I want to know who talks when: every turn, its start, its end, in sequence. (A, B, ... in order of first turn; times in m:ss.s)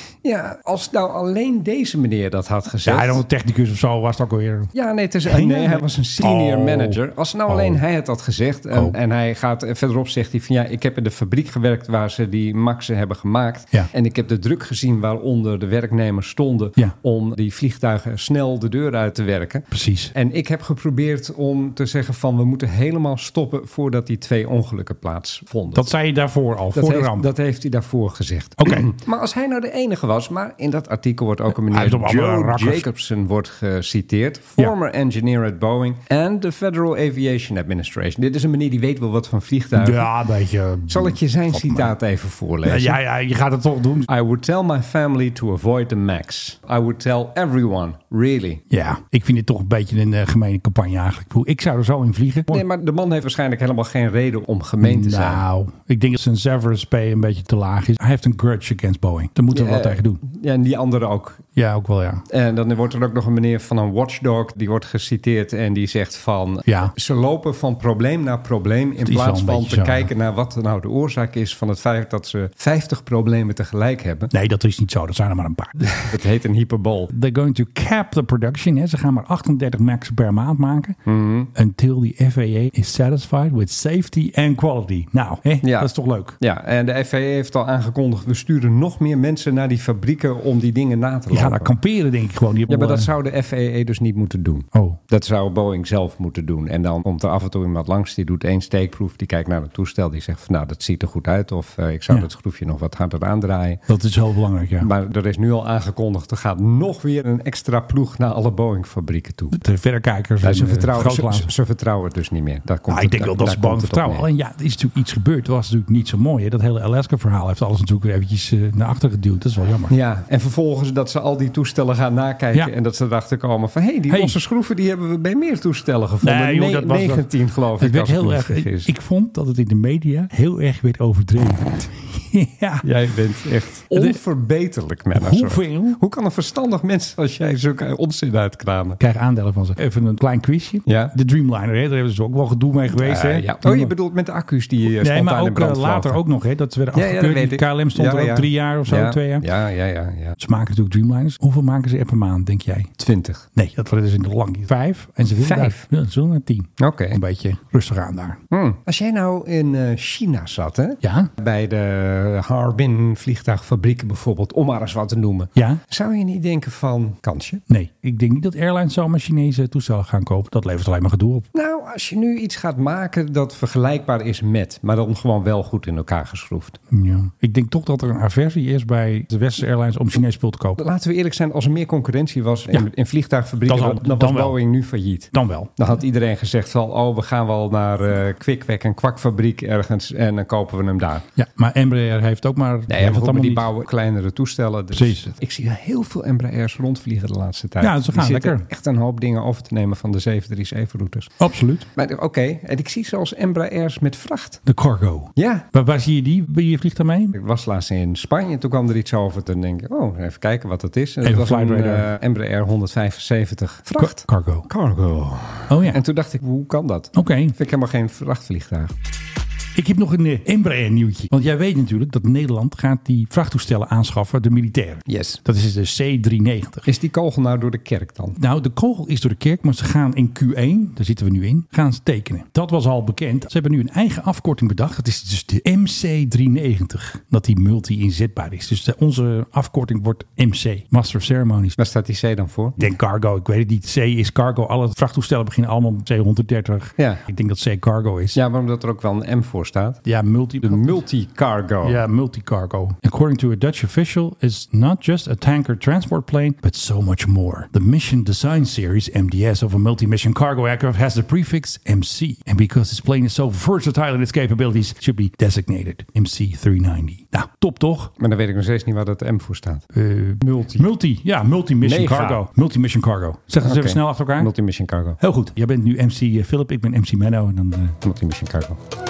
0:00.2-0:03.2 A
0:02.8-0:04.7 B
0:04.7-0:25.9 A
0:05.2-0:07.8 B
0:19.7-0:20.1 B
0:25.7-0:27.3 B
0:26.7-0:40.1 A
0:28.6-0:28.9 B
0:31.6-0:32.9 B
0:39.8-0:41.9 B
0:40.9-0:43.0 A
0:42.6-0:44.1 B
0:44.1-0:48.6 A
0:48.7-0:52.6 B
0:52.5-0:55.4 A
0:54.8-1:00.2 B
0:59.5-1:01.4 A
1:01.6-1:02.2 B
1:02.3-1:14.3 A
1:06.7-1:06.9 B
1:09.0-1:10.1 B
1:14.3-1:16.1 B
1:16.0-1:17.1 A
1:17.1-1:21.0 B
1:21.1-1:21.5 A
1:21.5-1:26.4 B
1:25.6-1:31.7 A
1:31.3-1:33.1 B
1:32.7-1:43.8 A
1:34.7-1:35.0 B
1:43.9-1:44.9 B
1:44.8-1:49.6 A
1:49.5-1:51.5 B
1:50.4-1:54.3 A
1:52.9-1:59.9 B
1:59.9-2:08.9 A
2:04.1-2:04.4 B
2:06.2-2:12.9 B
2:12.8-2:19.0 A
2:13.9-2:14.2 B
2:15.1-2:16.0 B
2:19.0-2:23.9 B
2:20.9-2:21.1 A
2:23.0-2:26.2 A
2:24.8-2:29.5 B
2:26.9-2:30.4 A
2:30.4-2:32.9 B
2:33.0-2:33.5 A
2:33.6-2:38.4 B
2:35.3-2:35.9 A
2:36.8-2:37.2 A
2:38.5-2:47.6 A
2:41.0-2:41.3 B
2:45.6-2:45.8 B
2:47.7-2:51.5 B
2:51.5-2:56.8 A
2:56.9-3:00.8 B
3:00.8-3:11.2 A
3:03.7-3:04.6 B
3:05.3-3:05.7 B
3:11.4-3:13.7 B
3:12.9-3:21.4 A
3:14.9-3:15.3 B
3:17.8-3:18.6 B
3:21.4-3:21.9 B
3:22.0-3:24.6 A
3:24.7-3:27.4 B
3:25.4-3:25.7 A
3:27.4-3:38.9 A
3:31.2-3:32.1 B
3:34.0-3:34.7 B
3:35.7-3:36.0 B
3:37.1-3:37.6 B
3:39.8-3:46.9 B
3:45.1-3:45.4 A
3:46.9-3:48.4 A
3:48.4-4:01.8 B
4:01.8-4:02.9 A
4:02.8-4:08.4 B
4:08.3-4:10.0 A
4:10.0-4:11.0 B
4:10.6-4:12.0 A
4:11.8-4:28.1 B
4:28.2-4:29.9 A
4:29.9-4:34.5 B
4:30.4-4:30.9 A
4:31.8-4:32.4 A
4:33.6-4:35.2 A
4:35.2-4:38.0 B
4:38.0-4:38.8 A